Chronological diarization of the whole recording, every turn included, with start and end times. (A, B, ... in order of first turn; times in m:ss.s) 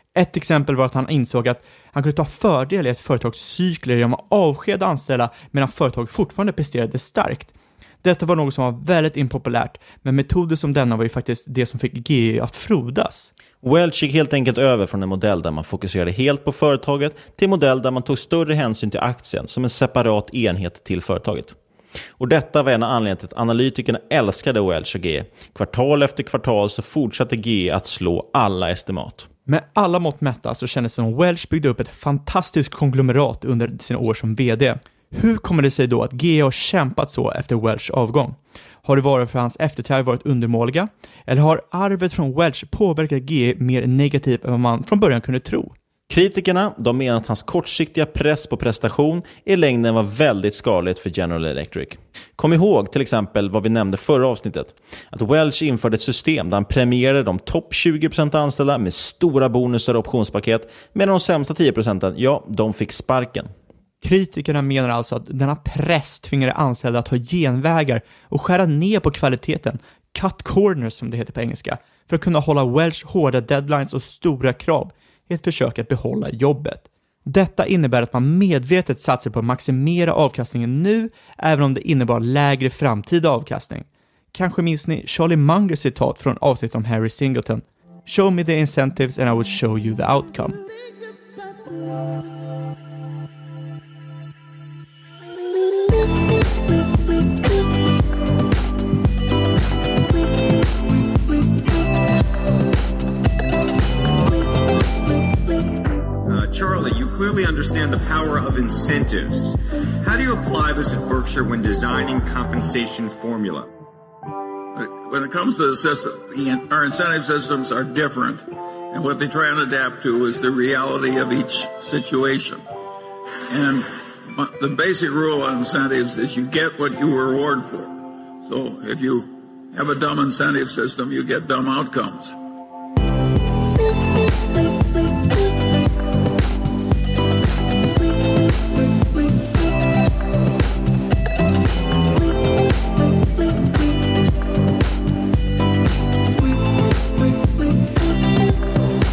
0:00.1-0:13.3 A
0:13.6-0:21.6 B
0:22.2-0:29.3 B
0:29.5-0:45.7 A
0:46.1-1:03.5 B
1:04.0-1:30.6 A
1:46.3-1:49.5 C
1:50.0-1:53.6 C
1:54.8-2:02.6 D
2:03.5-2:12.4 D